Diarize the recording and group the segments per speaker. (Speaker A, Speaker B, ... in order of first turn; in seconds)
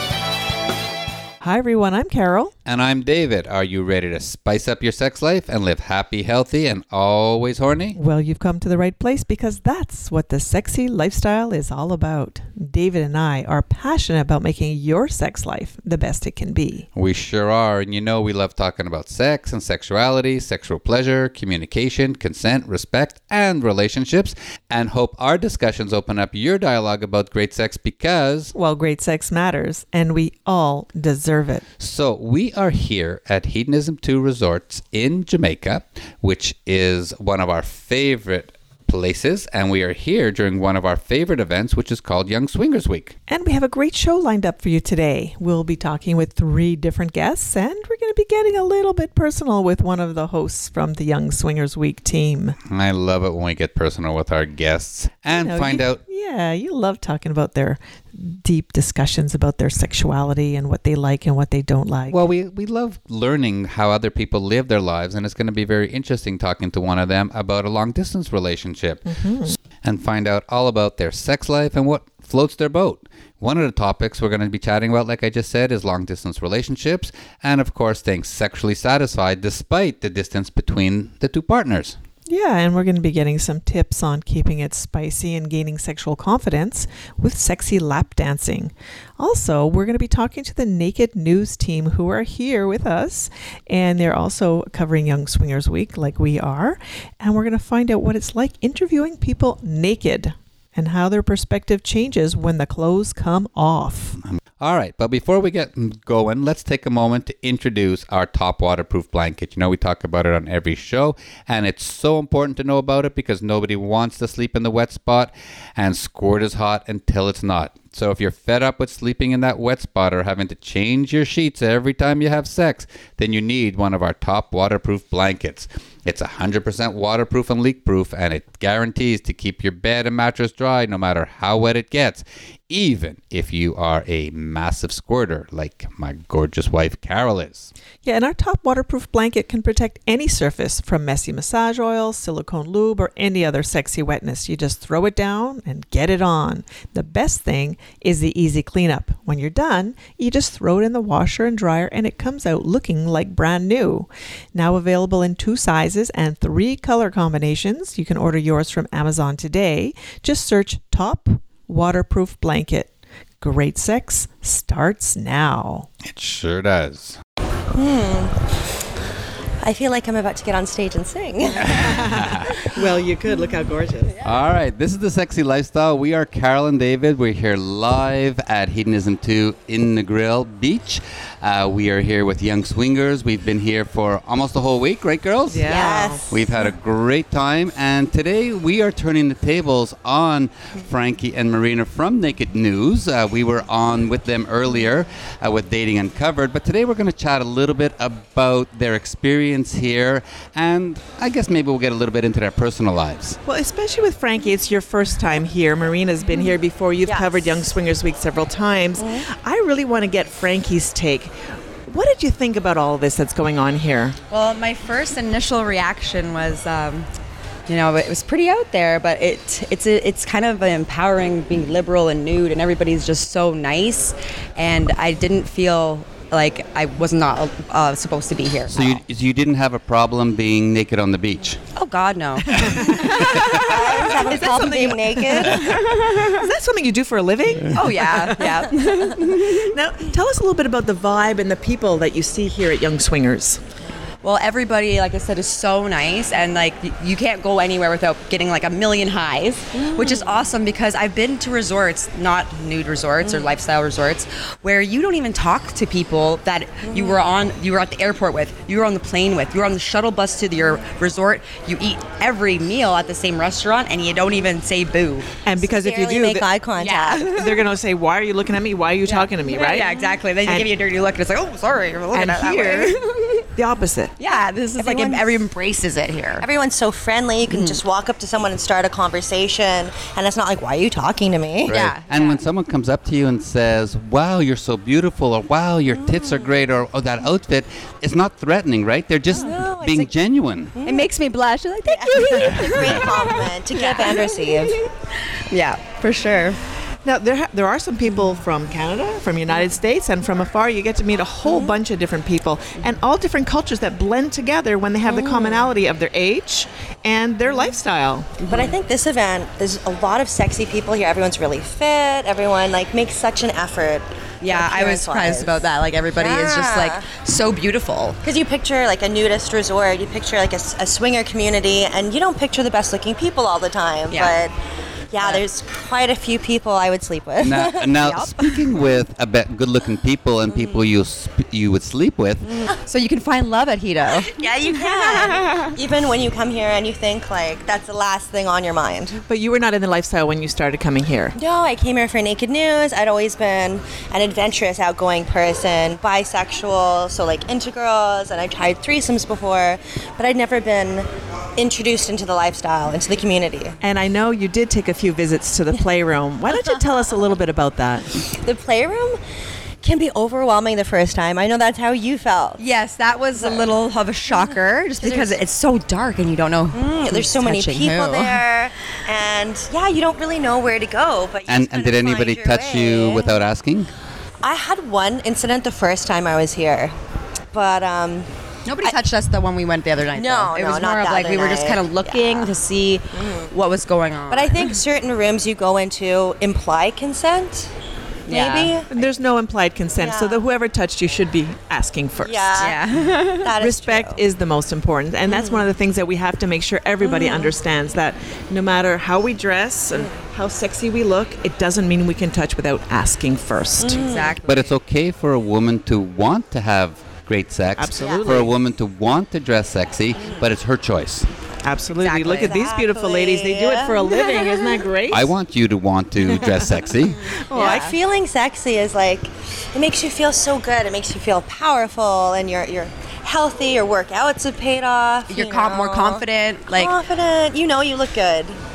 Speaker A: 1.4-2.5, 8.0-16.9, 28.5-31.6, 43.3-52.6, 55.4-62.2, 69.1-69.6, 82.3-104.2, 138.0-165.9, 171.7-174.2, 185.5-186.3, 203.4-211.3, 211.9-214.2, 232.5-243.6, 265.4-266.5, 267.3-270.7, 272.1-272.9, 273.6-274.1, 297.1-308.3, 339.3-341.4, 353.8-358.1, 388.9-392.5, 393.6-404.2, 407.8-408.6, 411.6-415.3, 416.3-418.0
Speaker B: 2.7-8.0, 17.0-28.5, 31.8-43.1, 52.7-56.0, 62.1-82.0, 104.2-137.7, 166.1-167.2, 171.7-172.5, 174.2-203.4, 228.7-231.6, 232.7-233.6, 281.7-290.8, 327.4-332.7, 371.5-373.9, 404.4-411.3, 415.1-417.2
Speaker C: 167.7-168.4, 169.6-172.3, 185.7-186.4, 207.0-207.6, 209.0-209.2, 233.6-235.8, 249.7-250.4, 253.2-253.5, 256.8-257.2, 265.6-267.3, 274.8-275.4, 276.4-281.8, 285.9-286.4, 289.3-290.1, 290.8-291.1, 291.9-294.8, 308.5-317.1, 318.2-324.5, 325.1-328.3, 334.3-339.2, 341.3-353.8, 358.2-359.2, 359.8-362.6, 363.4-363.7, 364.3-365.4, 366.7-373.4, 374.4-376.9, 377.5-378.3, 380.1-382.5, 383.1-383.5, 384.3-387.7, 388.3-388.9, 389.9-390.4, 392.2-392.8, 393.4-394.2, 395.3-395.7, 397.0-397.5, 403.8-404.4, 408.0-408.4, 412.3-414.8, 417.5-428.6
Speaker D: 214.3-217.1, 217.7-229.0, 231.8-233.2, 237.7-239.7, 244.2-265.4, 266.8-267.6, 269.1-273.4, 274.2-276.4, 281.7-282.4, 290.8-294.8, 295.5-296.6, 305.1-305.6, 308.4-308.8, 314.4-318.2, 324.1-324.4, 332.8-335.7, 362.6-368.4, 378.7-384.8, 388.3-388.8, 392.6-393.5, 403.8-404.7, 411.9-412.8, 417.6-417.9, 425.3-426.9